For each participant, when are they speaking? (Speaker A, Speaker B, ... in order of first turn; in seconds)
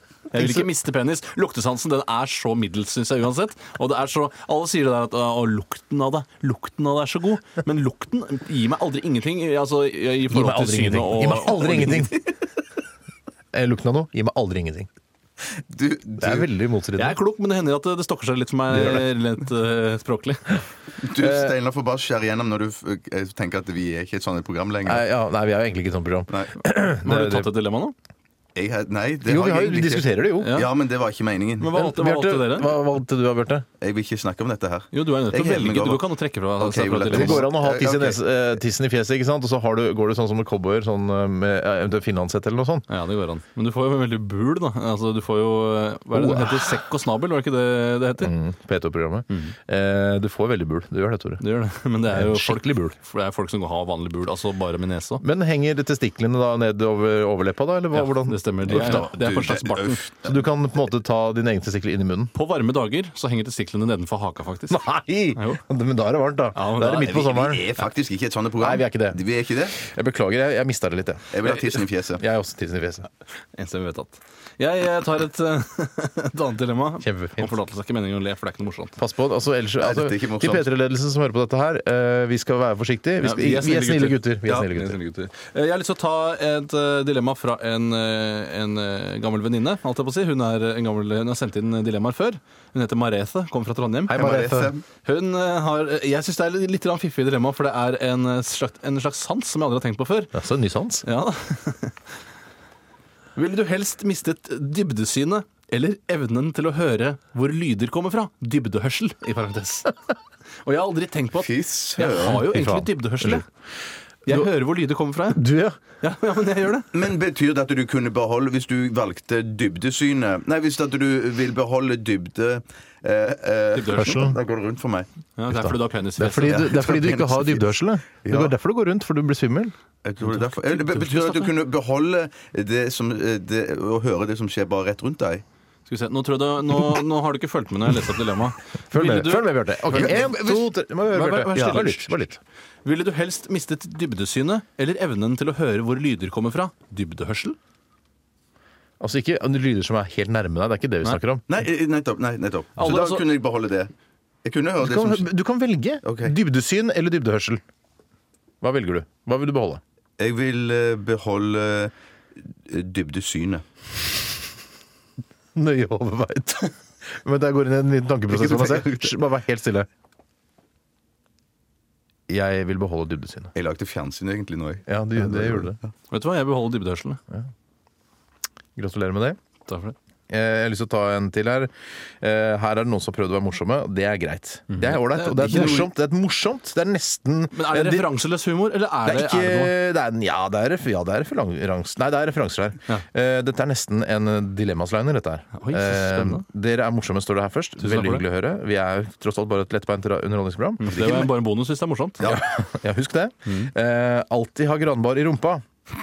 Speaker A: 0.3-12.1, 16.9-20.6, 27.0-27.9, 30.4-30.7, 31.6-32.8, 34.9-37.5, 42.9-48.3, 49.3-49.5, 51.4-55.2, 57.9-60.0, 62.3-64.8, 65.3-65.6, 66.5-67.3, 73.5-79.0, 83.2-94.2, 95.0-100.3, 101.0-101.9, 103.3-109.9, 110.6-113.5, 114.2-115.4, 116.0-116.9, 123.7-124.2, 125.3-126.8, 135.8-139.5, 141.1-142.2, 142.8-147.6, 152.8-153.2, 176.1-177.2, 179.7-179.9, 184.7-185.9, 187.5-189.7, 195.5-196.4, 197.8-198.2, 200.8-202.3, 203.4-203.7
Speaker B: 0.3-0.7, 10.3-12.3, 13.5-14.9, 16.2-17.2, 18.7-19.1, 24.9-27.5, 29.2-30.6, 31.7-33.6, 37.1-42.9, 46.1-46.8, 48.2-51.4, 52.1-52.9, 55.2-59.1, 60.2-62.3, 64.7-67.7, 68.6-73.1, 77.0-77.5, 79.0-85.0, 94.1-94.7, 100.3-101.0, 112.1-113.4, 115.3-115.8, 124.0-124.4, 125.5-129.7, 130.3-131.4, 138.9-142.4, 149.0-151.4, 154.8-157.6, 158.6-159.8, 165.5-169.9, 172.3-173.5, 174.8-175.8, 178.8-179.4, 180.3-188.1, 189.0-201.3, 202.2-205.6
Speaker C: 15.6-16.5, 21.0-25.1, 26.3-26.6, 28.6-31.7, 33.8-38.2, 58.7-60.4, 67.0-69.8, 71.3-72.2, 79.8-80.7, 94.1-94.8, 111.4-112.4, 116.9-125.1, 126.5-127.6, 128.2-128.5, 130.0-135.4, 139.9-140.7, 141.5-141.9, 151.5-153.9, 154.4-155.3, 156.0-156.3, 160.2-161.9, 162.7-163.6, 168.3-169.1, 173.5-175.8, 185.4-185.9